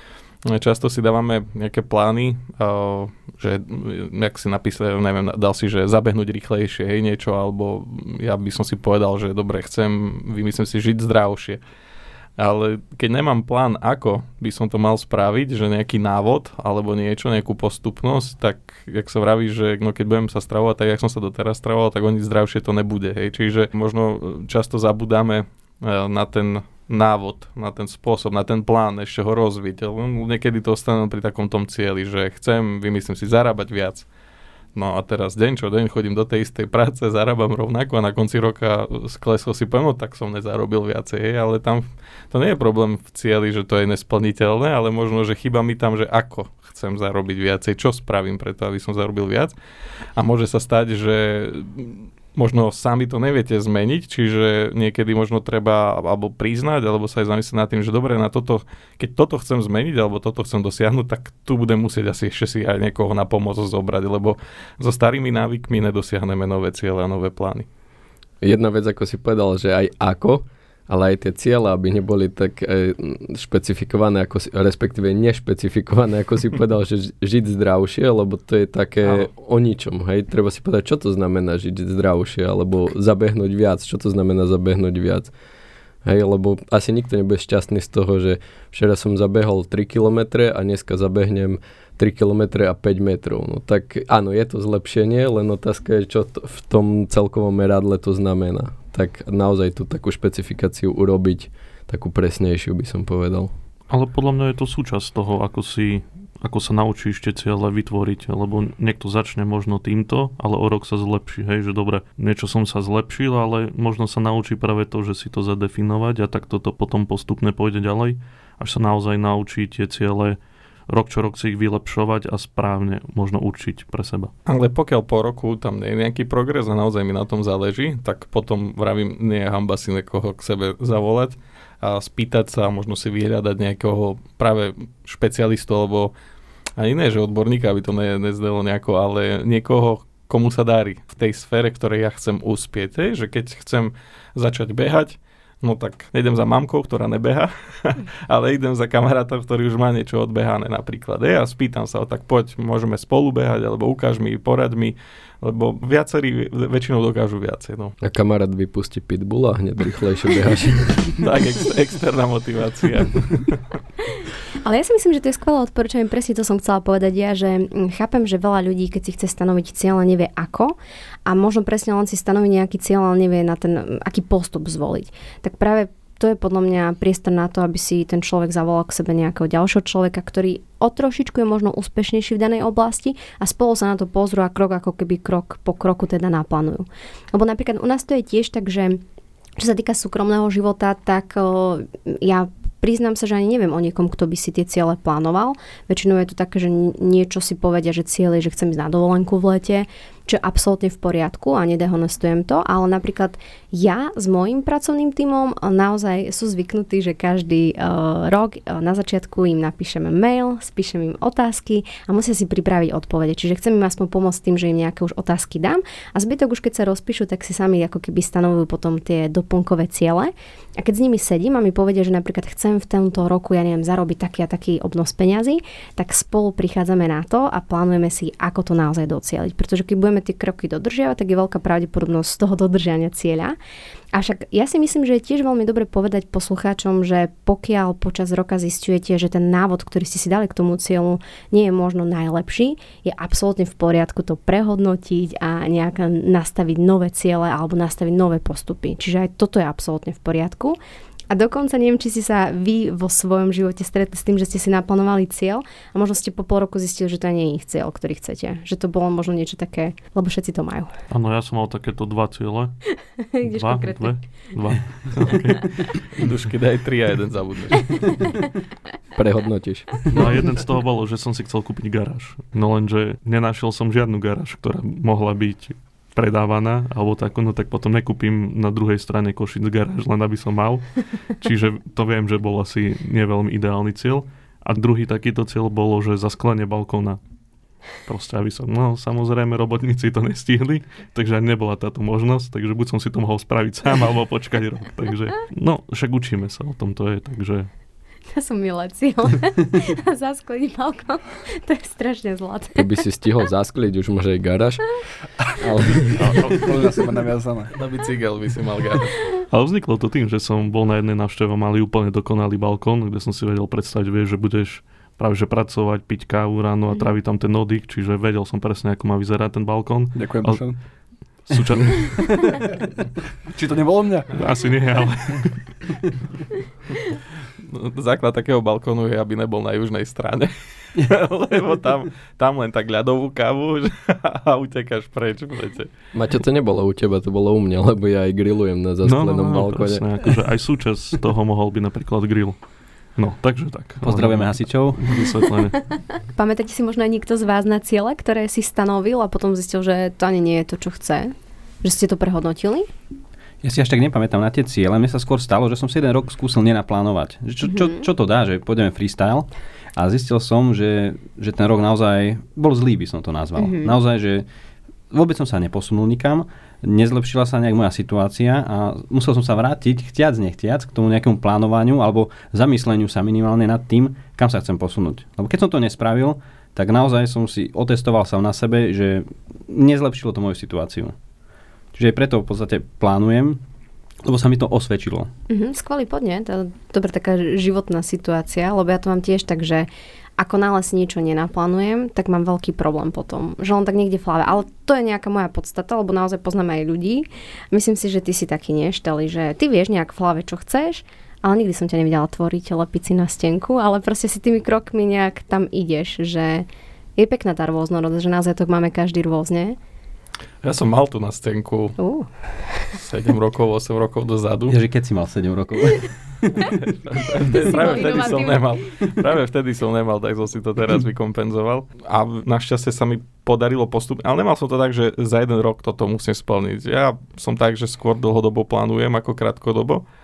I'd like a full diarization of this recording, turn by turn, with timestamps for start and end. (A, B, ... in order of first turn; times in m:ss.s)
0:00.5-0:11.6 A
0:12.4-0:34.1 A
0:34.8-0:49.6 A
0:50.2-1:07.7 A
1:08.4-1:25.3 B
1:26.0-1:43.5 B
1:43.9-2:00.4 C
2:00.9-2:04.3 C
2:04.5-2:16.1 A
2:16.8-2:38.0 A
2:38.0-2:41.1 B
2:41.2-2:43.6 A
2:44.6-3:09.0 D
3:09.6-3:53.6 D
3:54.1-4:10.8 D
4:11.3-4:20.9 D
4:21.1-4:25.9 C
4:23.2-4:24.2 D
4:26.1-4:28.2 A
4:29.2-4:30.1 B
4:30.1-4:47.2 C
4:47.9-4:57.7 C
4:58.3-5:02.9 D
5:02.8-5:05.0 B
5:05.6-5:06.2 B
5:06.1-5:07.7 E
5:07.7-5:09.2 A
5:09.5-5:20.8 C
5:20.2-5:20.8 E
5:21.4-5:22.7 C
5:23.5-5:24.5 E
5:24.3-5:26.0 C
5:27.7-5:35.9 A
5:36.1-5:40.0 B
5:39.0-5:42.6 C
5:43.2-5:45.9 C
5:44.0-5:45.0 F
5:46.4-5:52.9 D
5:53.6-6:04.5 F
5:57.6-5:58.0 D
6:03.6-6:03.9 D
6:05.1-6:21.2 F
6:21.9-6:23.6 F
6:24.2-6:25.3 F
6:25.5-6:46.7 D
6:47.2-6:49.8 D
6:50.6-6:52.0 A
6:52.0-6:52.9 D
6:52.9-6:54.8 A
6:54.7-6:56.6 F
6:56.7-7:10.0 A
6:57.4-6:58.8 D